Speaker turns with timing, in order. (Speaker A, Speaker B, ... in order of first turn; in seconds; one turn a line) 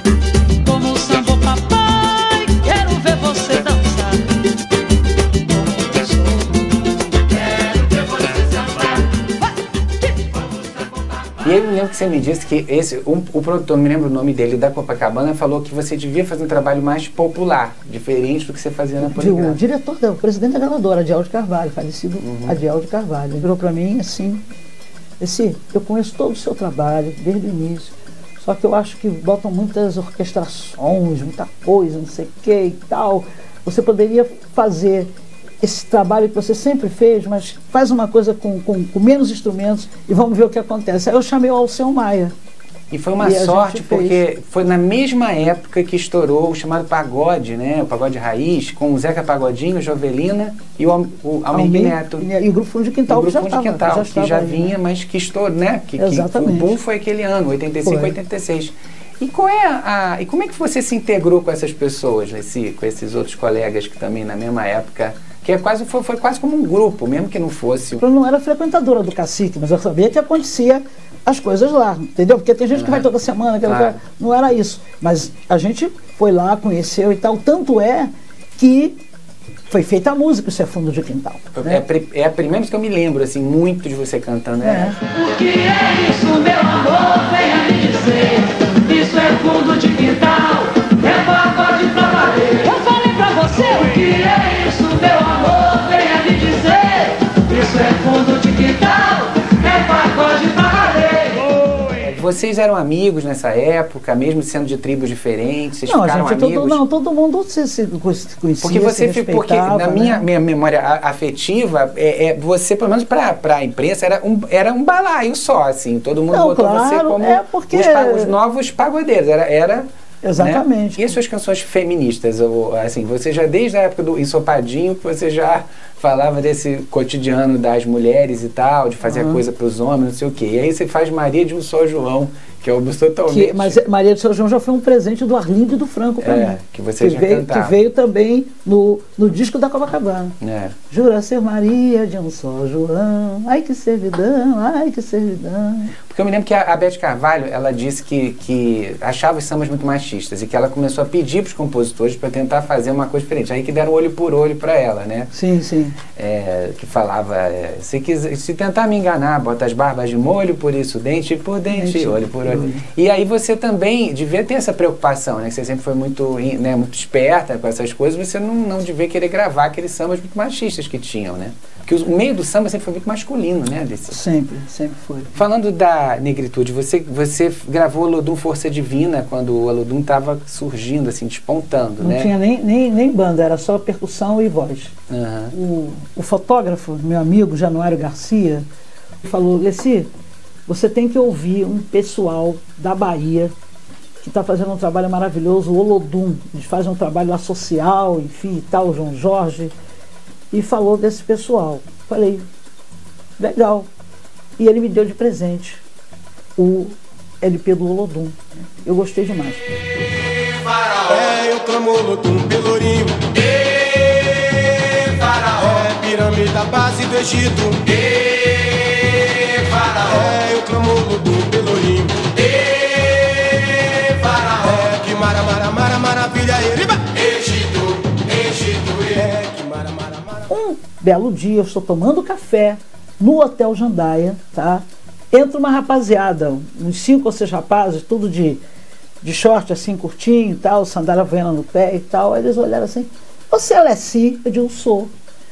Speaker A: 0.6-4.2
Speaker A: 5.7-6.5
Speaker A: 7.8-8.9
Speaker B: 11.4-19.6
Speaker C: 19.0-24.4
Speaker B: 22.2-22.6
Speaker C: 25.2-35.1
Speaker C: 35.6-42.3
Speaker B: 42.9-52.2
Speaker C: 43.2-44.2
Speaker C: 51.5-54.8
Speaker B: 53.1-68.0
Speaker C: 56.0-56.8
Speaker C: 57.8-58.1
Speaker C: 68.0-79.0
Speaker B: 72.7-73.1
Speaker B: 73.7-74.0
Speaker C: 79.7-81.8
Speaker B: 81.5-85.0
Speaker C: 84.6-85.0
Speaker A: 85.1-101.5
Speaker B: 101.9-106.8
Speaker C: 105.8-110.3
Speaker B: 108.6-119.8
Speaker C: 116.3-118.3
Speaker C: 120.2-121.2
Speaker B: 120.4-133.8
Speaker C: 129.1-129.4
Speaker C: 133.3-140.3
Speaker B: 136.2-137.8
Speaker B: 140.4-140.7
Speaker C: 140.9-145.9
Speaker B: 146.1-155.3
Speaker C: 155.3-156.0
Speaker B: 156.2-174.2
Speaker C: 161.7-162.8
Speaker C: 174.1-175.3
Speaker B: 175.3-182.3
Speaker C: 182.0-184.9
Speaker B: 185.1-185.5
Speaker C: 185.5-188.7
Speaker C: 189.2-190.1
Speaker C: 190.7-193.5
Speaker C: 194.2-199.7
Speaker C: 200.5-202.5
Speaker C: 203.4-203.9
Speaker C: 204.6-205.8
Speaker C: 206.6-209.6
Speaker D: 210.9-213.4
Speaker D: 215.0-218.5
Speaker D: 219.5-223.1
Speaker D: 224.1-230.2
Speaker C: 230.5-238.6
Speaker C: 239.2-245.1